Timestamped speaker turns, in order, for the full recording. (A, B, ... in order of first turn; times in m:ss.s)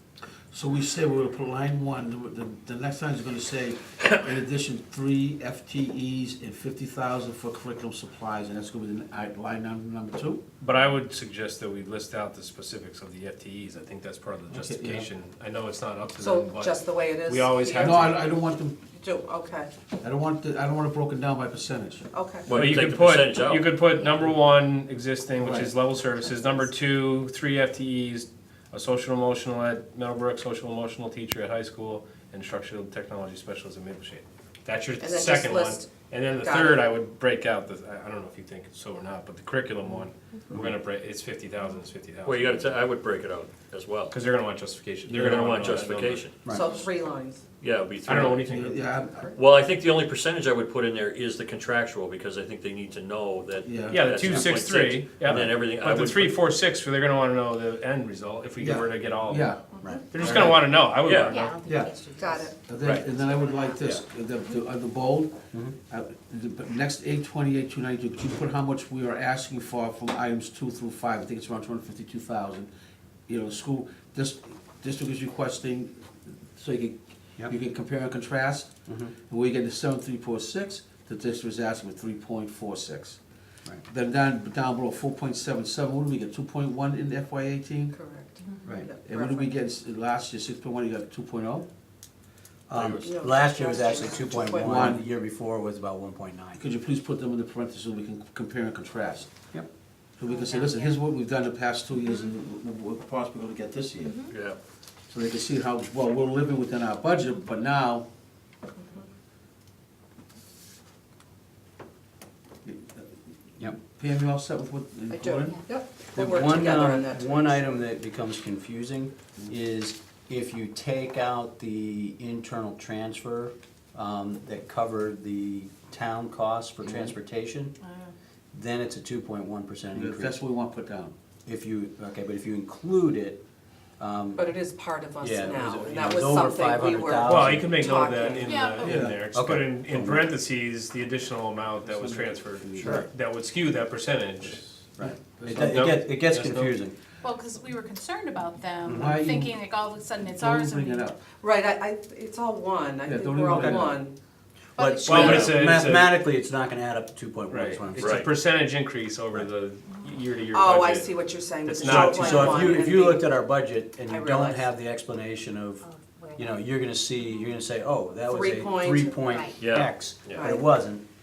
0:00.5-0:10.4 A
0:10.6-0:18.2 B
0:14.5-0:15.0 A
0:16.2-0:18.3 C
0:17.7-0:18.8 A
0:19.0-0:19.7 C
0:20.0-0:22.1 A
0:22.1-0:22.5 C
0:22.5-0:23.8 D
0:22.5-0:42.5 B
0:25.4-0:25.7 A
0:35.0-0:36.9 C
0:42.2-0:44.1 D
0:44.1-0:46.3 B
0:45.1-0:46.4 D
0:46.5-0:47.4 C
0:47.6-0:48.6 D
0:48.0-0:48.8 B
0:48.3-0:49.3 A
0:49.3-0:56.5 D
0:53.6-0:54.0 A
0:53.9-0:59.6 B
0:58.6-1:00.8 A
1:00.1-1:01.6 B
1:00.9-1:01.4 D
1:01.3-1:02.5 E
1:01.6-1:01.9 A
1:02.2-1:02.5 C
1:02.5-1:12.7 A
1:02.8-1:03.1 B
1:13.3-1:16.0 A
1:16.5-1:18.7 A
1:18.9-1:19.1 F
1:19.3-1:23.2 A
1:23.9-1:27.9 A
1:27.9-1:29.5 C
1:28.4-1:28.8 G
1:29.0-1:31.7 A
1:32.7-1:36.6 F
1:32.7-1:33.1 D
1:33.0-1:35.0 C
1:34.6-1:35.0 A
1:36.5-1:39.3 A
1:40.2-1:44.3 A
1:44.3-1:44.6 D
1:45.1-1:48.1 A
1:52.6-1:53.0 A
1:53.6-1:55.6 A
1:55.1-1:57.8 C
1:56.1-2:07.8 F
2:06.8-2:07.1 A
2:07.8-2:08.1 G
2:08.5-2:10.4 F
2:09.9-2:11.1 A
2:11.4-2:13.4 F
2:14.0-2:14.6 F
2:14.4-2:18.7 C
2:15.2-2:17.8 F
2:17.2-2:24.8 B
2:18.4-2:19.0 G
2:18.8-2:19.2 A
2:19.1-2:20.3 F
2:21.8-2:23.0 A
2:22.8-2:23.1 F
2:25.0-2:27.0 F
2:25.0-2:25.7 A
2:25.4-2:26.8 B
2:27.2-2:31.1 G
2:28.8-2:29.2 F
2:28.9-2:29.5 A
2:30.2-2:31.2 A
2:31.4-2:34.1 C
2:33.0-2:34.0 A
2:33.5-2:33.9 F
2:34.8-2:35.3 G
2:34.8-2:38.3 F
2:35.0-2:36.1 B
2:35.1-2:35.6 D
2:37.5-2:42.7 B
2:38.0-2:38.3 D
2:40.5-2:43.3 C
2:41.8-2:51.0 F
2:42.1-2:42.6 G
2:44.0-2:44.7 C
2:45.8-2:46.6 E
2:48.2-2:49.5 C
2:49.3-2:49.6 E
2:49.6-2:50.5 D
2:50.3-2:50.7 C